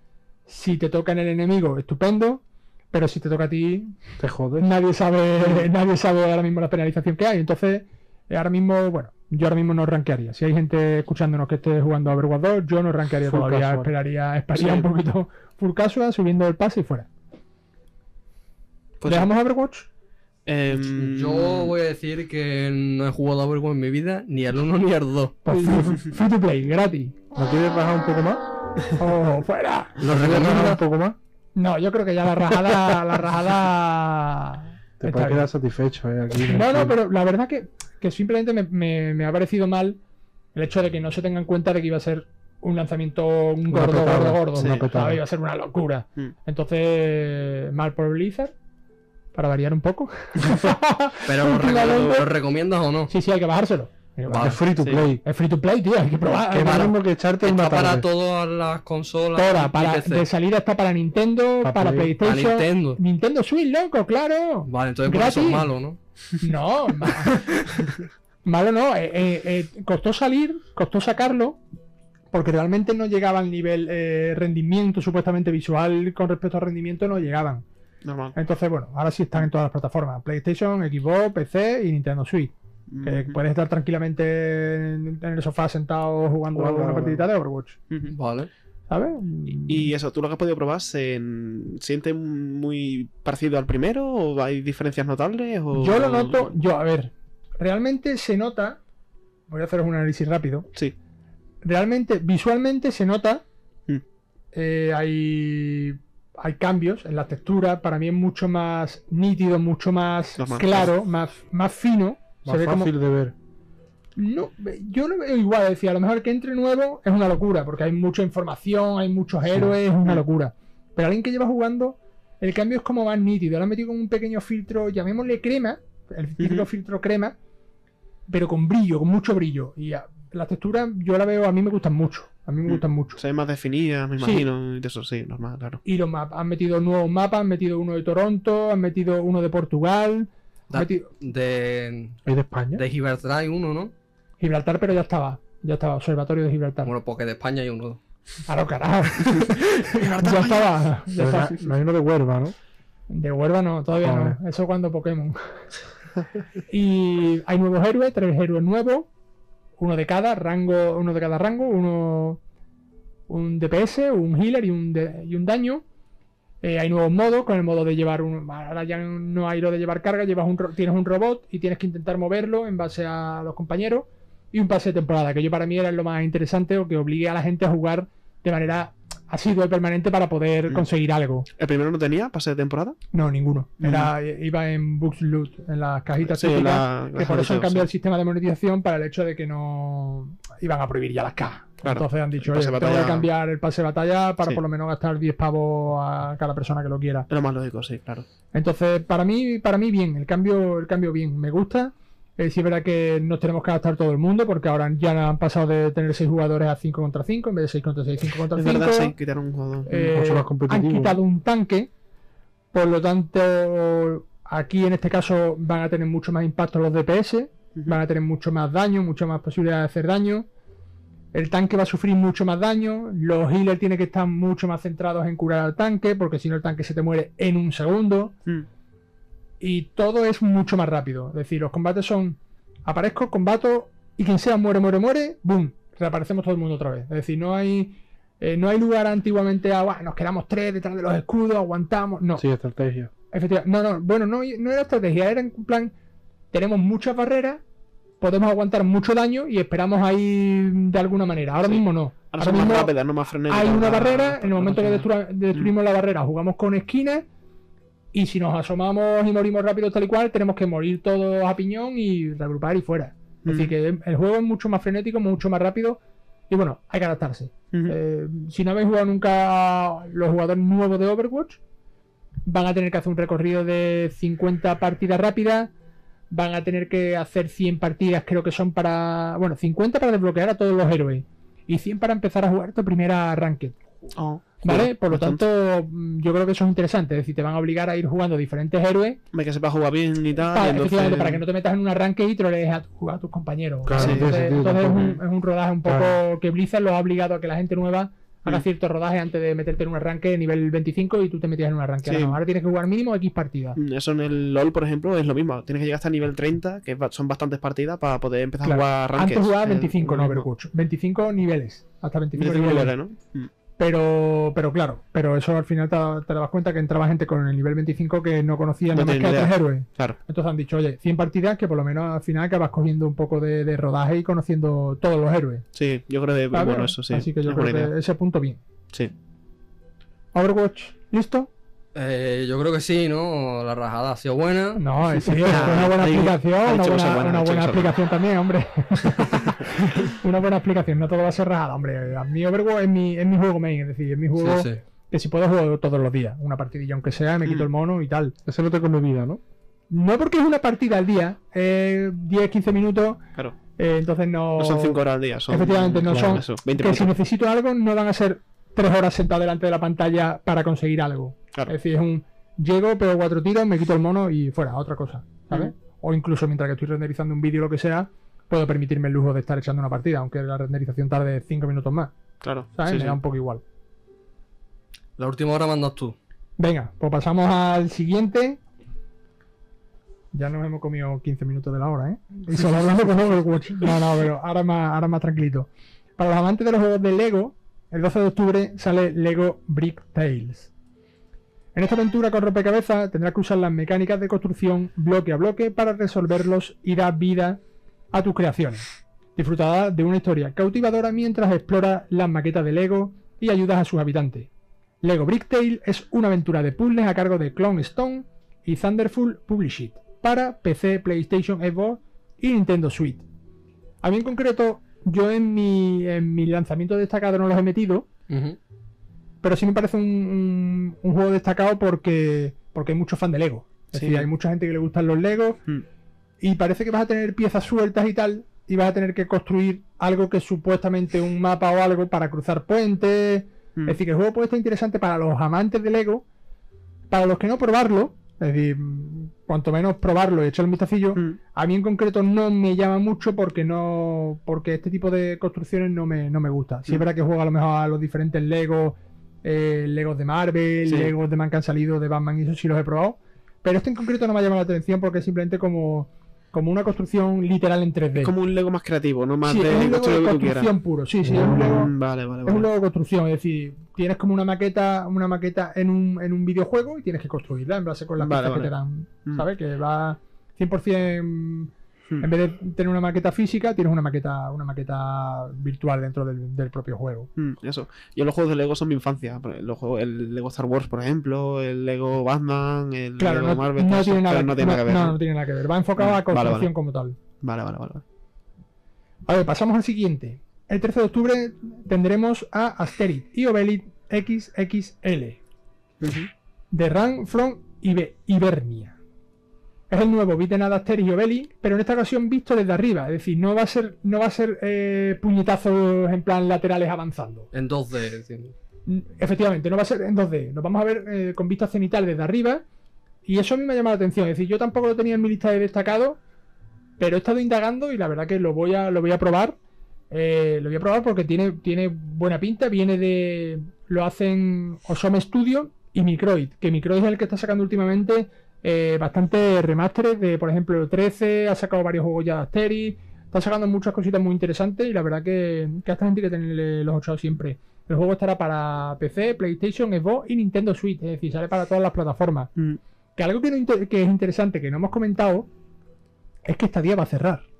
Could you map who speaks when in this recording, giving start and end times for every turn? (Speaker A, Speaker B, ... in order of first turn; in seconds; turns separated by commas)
Speaker A: 0.5-4.0, Speaker B: 4.2-4.7, Speaker A: 4.6-17.1, Speaker B: 13.3-13.9, Speaker C: 14.6-14.9, Speaker C: 19.0-19.3, Speaker A: 19.1-19.9, Speaker C: 20.4-21.7, Speaker D: 20.8-25.4, Speaker B: 25.4-25.9, Speaker A: 25.5-27.1, Speaker B: 27.3-28.4, Speaker A: 29.0-30.1, Speaker D: 30.0-30.8, Speaker B: 30.0-31.2, Speaker A: 31.5-35.5, Speaker B: 35.0-37.0, Speaker A: 36.5-40.0, Speaker A: 40.5-48.5, Speaker B: 43.7-45.2, Speaker C: 44.6-44.9, Speaker A: 49.3-52.2, Speaker C: 50.4-50.7, Speaker D: 51.2-53.1, Speaker A: 53.1-54.6, Speaker D: 54.3-54.6, Speaker B: 54.3-55.2, Speaker C: 54.8-55.1, Speaker A: 55.2-56.9, Speaker B: 56.2-58.1, Speaker D: 56.6-60.2, Speaker A: 59.4-65.7, Speaker B: 61.6-62.1, Speaker D: 62.2-63.0, Speaker D: 64.7-66.0, Speaker A: 66.4-67.8, Speaker A: 68.4-71.6, Speaker A: 72.3-77.6, Speaker C: 78.0-78.3, Speaker A: 78.3-87.8, Speaker C: 82.9-83.3, Speaker B: 86.5-87.3, Speaker C: 87.9-88.1, Speaker D: 88.1-88.5, Speaker A: 88.9-89.9, Speaker C: 89.7-96.5, Speaker A: 95.7-98.8, Speaker A: 99.5-100.7, Speaker A: 101.6-103.4, Speaker A: 104.5-112.9, Speaker C: 110.4-110.9, Speaker B: 112.4-113.3, Speaker A: 114.2-127.3, Speaker C: 126.4-126.7, Speaker A: 128.3-133.2, Speaker C: 132.7-135.8, Speaker A: 134.2-134.5, Speaker A: 135.8-141.1, Speaker D: 140.7-142.2, Speaker B: 142.2-142.8, Speaker D: 142.7-143.9, Speaker A: 144.4-146.9, Speaker D: 146.8-148.0, Speaker A: 148.5-151.6, Speaker C: 150.2-150.6, Speaker B: 151.1-152.5, Speaker A: 153.1-155.7, Speaker B: 154.0-154.4, Speaker A: 156.7-159.1, Speaker A: 159.8-162.4, Speaker A: 163.3-165.8, Speaker A: 166.6-181.5, Speaker C: 181.6-183.0, Speaker A: 183.1-197.3, Speaker C: 183.8-184.1, Speaker C: 186.2-187.9, Speaker C: 191.8-193.3, Speaker C: 197.3-198.3, Speaker A: 198.5-209.1, Speaker C: 208.6-209.9, Speaker A: 209.9-211.9, Speaker B: 209.9-211.2, Speaker A: 212.7-220.5, Speaker A: 221.3-228.3, Speaker A: 229.6-242.4, Speaker B: 242.3-243.1, Speaker A: 243.3-245.9, Speaker A: 246.5-247.6, Speaker A: 248.2-252.9, Speaker C: 251.7-255.7, Speaker A: 253.5-257.2, Speaker A: 258.1-271.6, Speaker C: 263.4-263.7, Speaker A: 272.4-275.7, Speaker A: 276.3-283.8, Speaker C: 284.1-285.4, Speaker A: 284.6-289.2, Speaker C: 289.3-291.4, Speaker A: 290.4-303.8, Speaker B: 293.8-295.1, Speaker C: 293.9-294.4, Speaker C: 294.9-295.2, Speaker B: 295.9-296.2, Speaker C: 302.0-302.4, Speaker C: 303.8-310.4, Speaker A: 308.6-312.9, Speaker C: 312.3-313.5, Speaker A: 313.8-325.6, Speaker C: 318.9-320.2, Speaker C: 325.7-327.9, Speaker A: 326.5-328.6, Speaker A: 330.3-331.5, Speaker D: 331.9-335.6, Speaker A: 334.8-348.3, Speaker C: 335.4-338.0, Speaker C: 339.1-339.6, Speaker D: 344.4-344.8, Speaker B: 348.4-349.4, Speaker A: 349.9-353.2, Speaker A: 353.8-372.1, Speaker C: 354.6-357.1, Speaker B: 356.1-356.4, Speaker C: 372.4-373.2, Speaker A: 372.7-373.6, Speaker D: 375.2-376.1, Speaker A: 376.6-378.6, Speaker A: 380.3-390.7, Speaker A: 391.7-397.6, Speaker A: 398.1-398.8, Speaker A: 399.4-404.5, Speaker A: 405.0-413.2, Speaker A: 414.0-418.1, Speaker D: 418.3-418.6, Speaker A: 419.4-425.6, Speaker C: 424.0-424.3, Speaker A: 426.4-436.2, Speaker A: 437.1-458.3, Speaker C: 450.9-451.1, Speaker C: 458.2-460.7, Speaker A: 459.4-461.9, Speaker C: 461.2-462.7, Speaker A: 462.4-477.3, Speaker C: 468.2-468.7, Speaker C: 477.4-485.2, Speaker A: 483.2-487.2, Speaker C: 486.0-486.7, Speaker C: 487.4-488.0, Speaker A: 489.3-495.4, Speaker C: 496.0-496.3, Speaker A: 496.7-499.0, Speaker A: 499.9-507.5, Speaker D: 507.5-508.5, Speaker A: 508.9-512.6, Speaker A: 513.2-516.2, Speaker A: 517.0-519.6, Speaker A: 520.1-542.5, Speaker A: 543.1-545.5, Speaker A: 546.4-547.4